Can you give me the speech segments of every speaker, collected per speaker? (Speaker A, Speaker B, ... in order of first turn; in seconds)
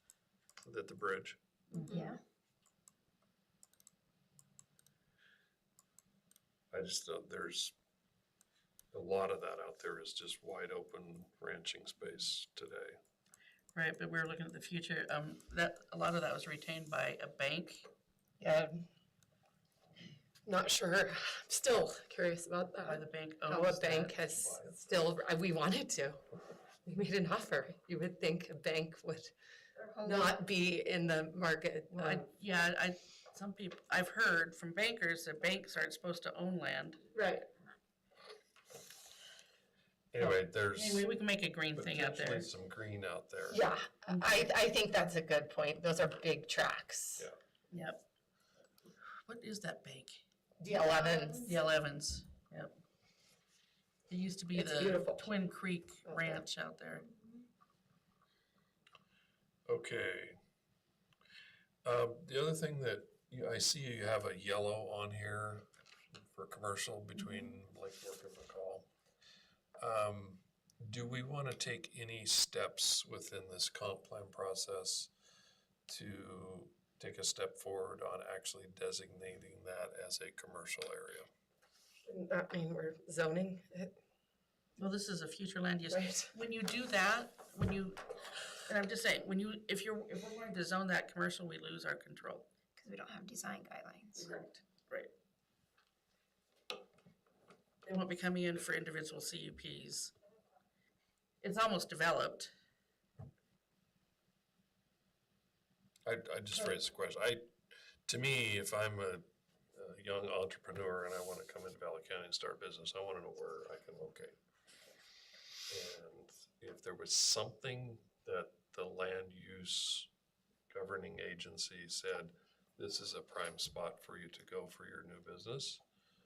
Speaker A: 0.6-1.4, 6.7-7.7, 8.9-13.0, 24.2-24.9, 40.1-41.0, 41.7-43.7, 59.7-60.4, 61.8-68.9, 69.8-75.1, 75.9-81.3, 106.0-107.5, 108.1-114.3, 115.7-120.1, 120.7-125.8
Speaker B: 1.7-2.1, 13.7-17.9, 22.8-24.2, 31.9-37.0, 40.2-42.5, 44.1-44.5, 47.7-48.0, 49.0-50.2, 51.3-52.7, 54.1-57.1, 84.8-88.0, 88.6-92.5, 94.1-95.1, 97.8-100.1, 101.4-102.5
Speaker C: 1.8-2.2, 92.8-94.2
Speaker D: 18.4-18.8, 20.4-26.2, 26.8-29.3, 30.0-32.3, 37.1-37.5, 43.5-47.3, 50.6-51.6, 54.5-55.3, 56.0-56.5, 82.0-83.9, 85.9-86.3